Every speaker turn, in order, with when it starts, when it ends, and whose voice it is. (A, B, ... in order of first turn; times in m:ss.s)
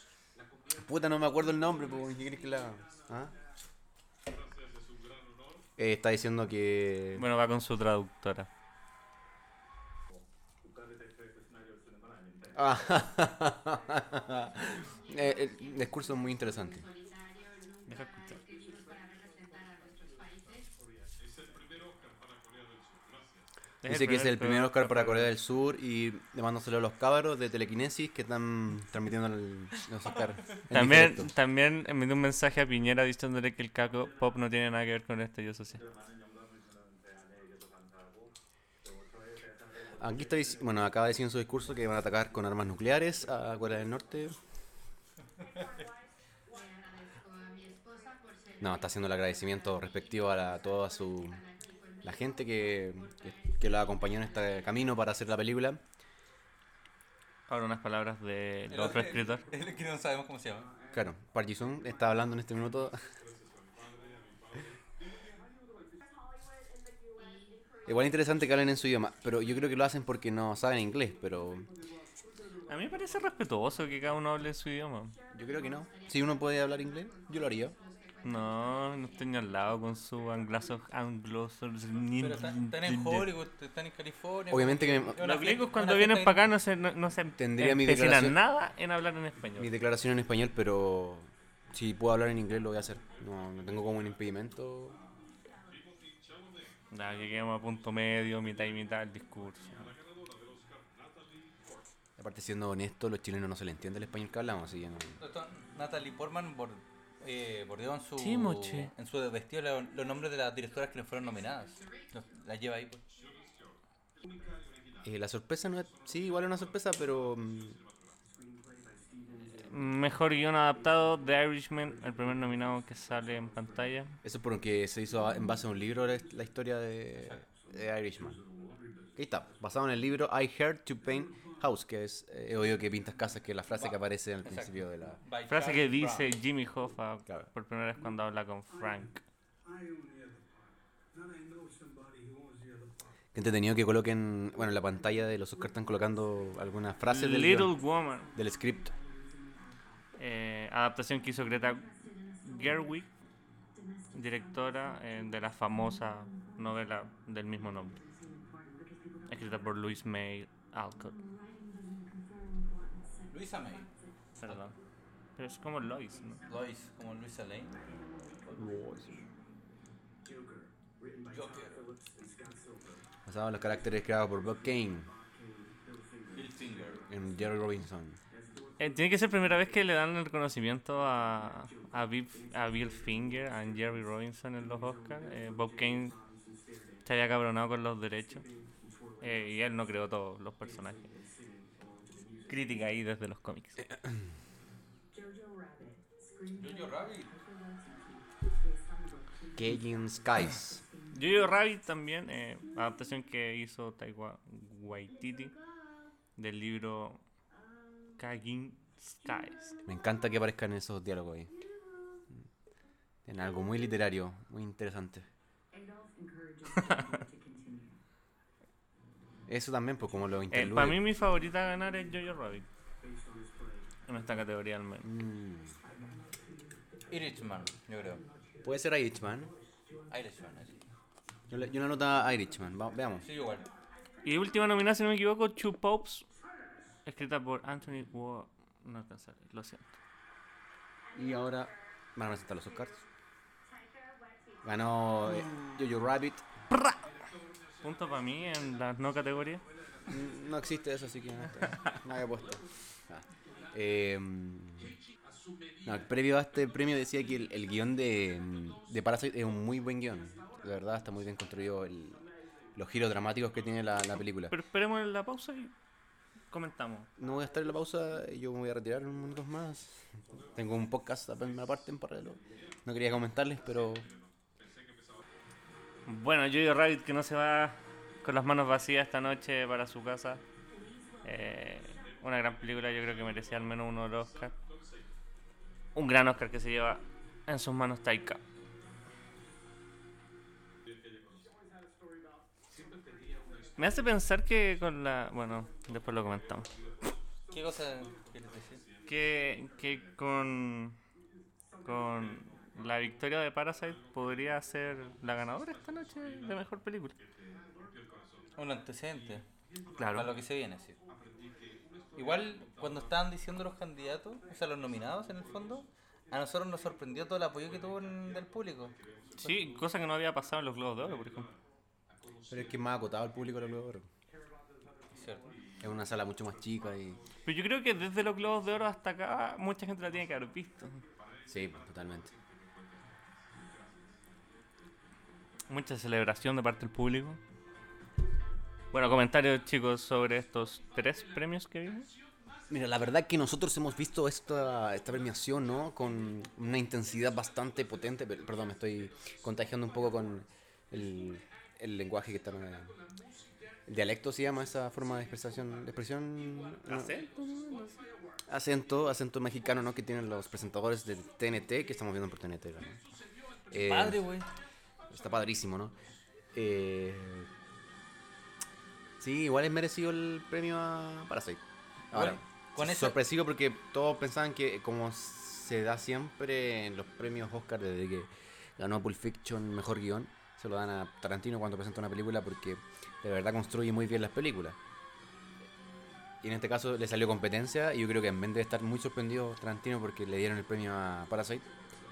0:00.7-0:03.3 A
0:05.8-0:07.2 A
0:07.2-0:08.5 B
0:12.5-0:16.9 A
0:17.9-0:18.4 B
0:23.8-0:25.3 B
0:23.9-0:31.3 A
0:30.7-0:35.8 B
0:40.0-0:44.4 A
0:48.6-0:51.4 A
0:52.0-0:55.8 A
0:57.5-0:59.4 B
0:58.7-1:00.7 C
1:00.9-1:03.0 A
1:07.8-1:11.7 A
1:12.7-1:15.1 B
1:15.3-1:17.8 A
1:18.2-1:23.3 B
1:22.2-1:26.4 C
1:24.5-1:25.2 A
1:25.2-1:29.7 B
1:27.4-1:28.4 A
1:29.6-1:35.0 A
1:36.9-1:39.9 B
1:42.2-1:45.2 A
1:45.2-1:53.0 C
1:48.2-1:48.9 B
1:55.0-1:57.8 A
1:59.6-2:04.1 B
2:04.2-2:08.4 A
2:09.2-2:15.2 A
2:13.7-2:16.3 C
2:15.5-2:19.2 B
2:23.3-2:27.7 A
2:27.1-2:28.3 B
2:28.3-2:28.9 A
2:30.2-2:31.9 B
2:32.4-2:33.1 B
2:34.1-2:38.0 B
2:39.3-2:41.2 B
2:43.3-2:43.9 C
2:44.4-2:44.8 B
2:45.4-2:46.4 B
2:46.5-2:47.8 C
2:48.5-2:49.2 A
2:51.3-2:51.8 C
2:53.2-2:55.1 A
2:56.3-2:57.0 C
2:57.1-2:58.2 A
2:58.8-3:06.2 B
3:07.0-3:08.4 B
3:09.2-3:11.1 B
3:12.5-3:13.8 B
3:16.5-3:17.4 C
3:19.5-3:20.8 A
3:21.1-3:25.5 B
3:26.4-3:27.2 B
3:28.2-3:29.8 B
3:29.8-3:31.5 A
3:33.2-3:35.3 A
3:36.7-3:37.2 B
3:39.5-3:41.0 A
3:40.5-3:42.6 B
3:44.1-3:45.1 B
3:45.0-3:45.8 A
3:47.1-3:48.2 C
3:48.6-3:49.5 A
3:50.1-3:50.8 C
3:51.5-3:53.2 A
3:53.2-3:53.7 C
3:54.2-3:56.2 B
3:57.0-3:59.9 B
4:01.1-4:03.0 A
4:04.6-4:06.4 A
4:06.7-4:07.0 B
4:07.8-4:09.6 B
4:10.1-4:15.0 A
4:15.8-4:22.2 A
4:22.7-4:24.5 A
4:24.5-4:25.7 B
4:26.5-4:27.1 B
4:27.2-4:34.1 A
4:36.0-4:40.4 B
4:41.2-4:44.6 B
4:45.9-4:48.4 B
4:53.8-4:56.7 B
4:57.5-4:58.8 C
4:59.1-5:01.0 B
5:01.8-5:07.2 B
5:08.6-5:09.4 C
5:10.0-5:10.3 B
5:10.1-5:11.0 C
5:12.1-5:18.9 C
5:19.4-5:21.5 B
5:22.5-5:24.1 A
5:25.1-5:25.5 C
5:25.8-5:27.2 A
5:27.4-5:31.0 B
5:31.5-5:32.3 A
5:35.7-5:37.4 B
5:38.9-5:42.1 B
5:42.7-5:52.9 A
5:53.9-5:57.2 A
5:56.8-5:58.0 B
5:58.5-6:03.0 A
6:03.7-6:04.2 A
6:03.7-6:04.5 C
6:05.1-6:05.9 A
6:06.5-6:07.5 A
6:09.2-6:24.8 A
6:12.1-6:13.2 C
6:26.4-6:31.7 A